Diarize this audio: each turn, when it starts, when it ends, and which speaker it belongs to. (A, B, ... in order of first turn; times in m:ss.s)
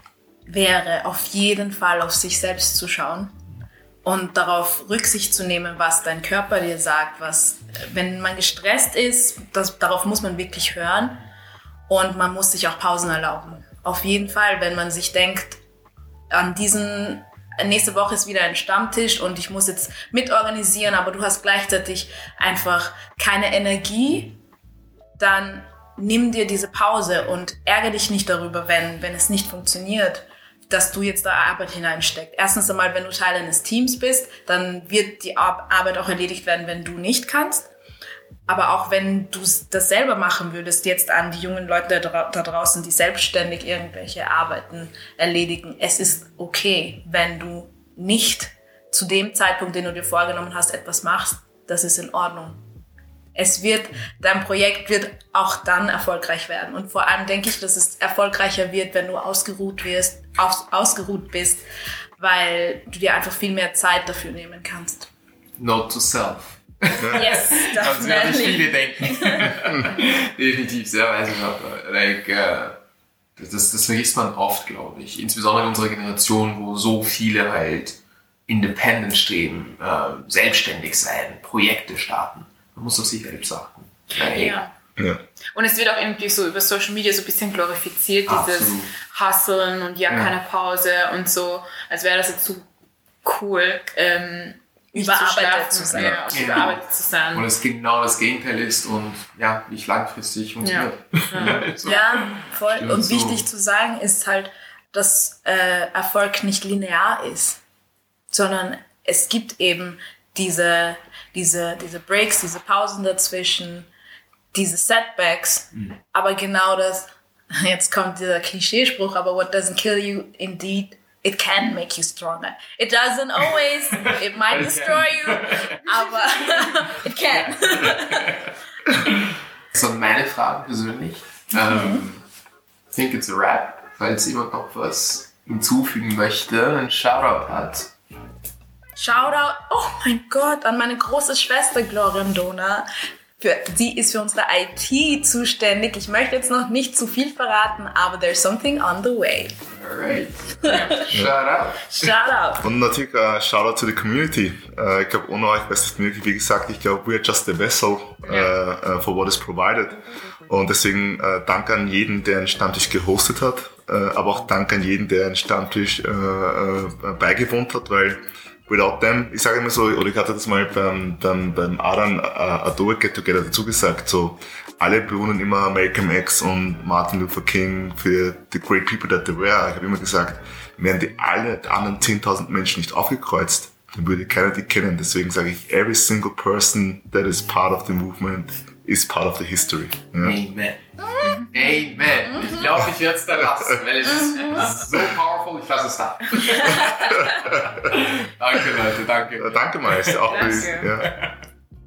0:00.5-0:03.3 A
0:04.0-0:11.2 A
0:11.9-0:15.6 A
0:16.3-0:24.4 A
0:25.2-0:37.7 A
0:38.5-0:52.6 A
0:53.3-1:01.6 A
1:02.2-1:05.1 A
1:05.6-1:12.8 B
1:07.1-1:09.5 A
1:13.4-1:24.6 B
1:24.2-1:24.7 C
1:25.5-1:32.7 C
1:28.3-1:28.9 B
1:30.1-1:30.3 B
1:33.2-1:37.5 C
1:34.9-1:36.7 A
1:35.9-1:36.8 B
1:37.3-1:42.0 B
1:40.6-1:42.0 C
1:41.4-1:47.6 A
1:42.7-1:43.4 B
1:48.3-1:53.9 A
1:54.5-2:08.4 A
2:04.4-2:12.2 B
2:11.7-2:12.0 A
2:12.9-2:17.9 B
2:19.0-2:22.9 A
2:23.4-2:29.6 A
2:29.7-2:32.1 B
2:30.6-2:31.0 A
2:30.6-2:31.0 C
2:31.1-2:31.4 D
2:31.9-2:32.6 A
2:32.6-3:10.4 D
2:38.2-2:38.5 C
3:10.2-3:10.8 B
3:11.4-3:21.3 B
3:17.3-3:17.6 D
3:19.4-3:21.2 D
3:20.3-3:20.9 C